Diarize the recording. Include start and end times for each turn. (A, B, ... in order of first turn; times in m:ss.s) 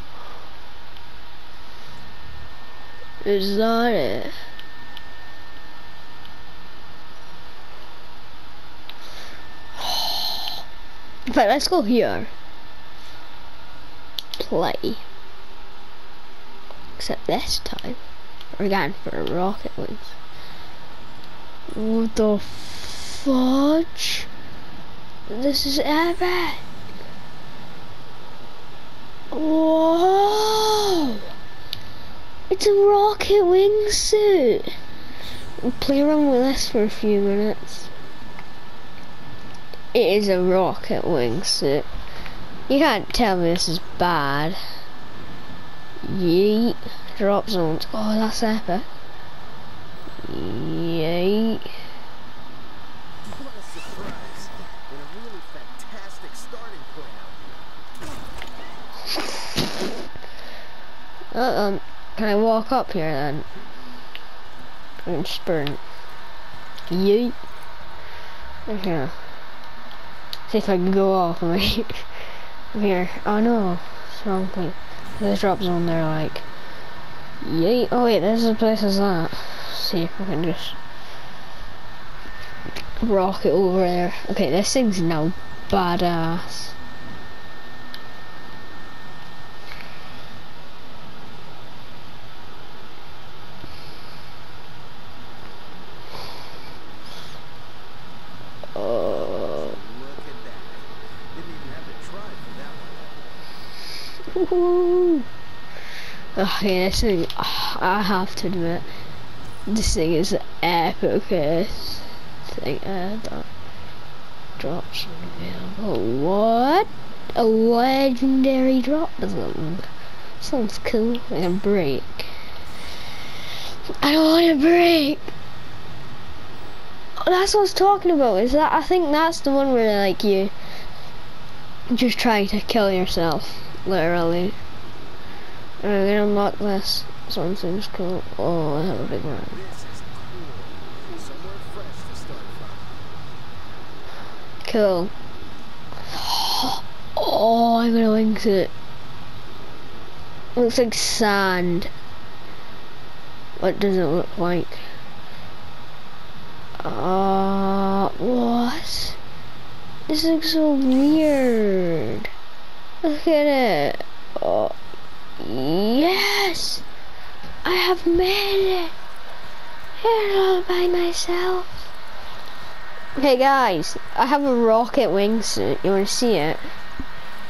0:03.2-0:04.4 A
0:09.8-0:10.6 A
0:11.2-0:12.3 A
0:14.4-0:15.0 A
0:17.0-0:18.0 A
0:18.5-0:20.1 A
0:21.7-0:24.3 A
0:25.3-0:26.6 A
0:29.3-0:31.2 A
0:32.5-0:34.8 A
0:35.6-0:37.9 A
0:39.9-0:41.9 A
0:42.7-0:44.8 A
0:46.0-0:48.9 A
0:50.2-0:51.7 A
0:53.2-0:57.9 B
1:01.3-1:03.5 A
1:05.0-1:05.8 A
1:06.9-1:07.4 A
1:08.7-1:09.2 A
1:10.5-1:16.4 A
1:17.4-1:20.8 A
1:23.0-1:26.7 A
1:38.7-1:39.8 A
1:39.5-1:43.2 B
1:44.3-1:45.3 A
1:46.3-1:48.8 A
1:49.7-1:53.5 A
1:54.6-1:59.9 A
2:00.4-2:02.5 A
2:04.0-2:05.3 A
2:07.2-2:10.5 A
2:11.9-2:14.6 A
2:15.8-2:19.6 A
2:19.0-2:23.0 B
2:24.6-2:25.1 A
2:26.1-2:28.7 A
2:30.5-2:31.9 A
2:33.6-2:35.0 A
2:36.8-2:39.2 A
2:40.1-2:42.3 A
2:43.0-2:44.7 A
2:45.4-2:46.8 A
2:47.6-2:48.9 A
2:50.0-2:51.8 A
2:53.1-2:56.7 A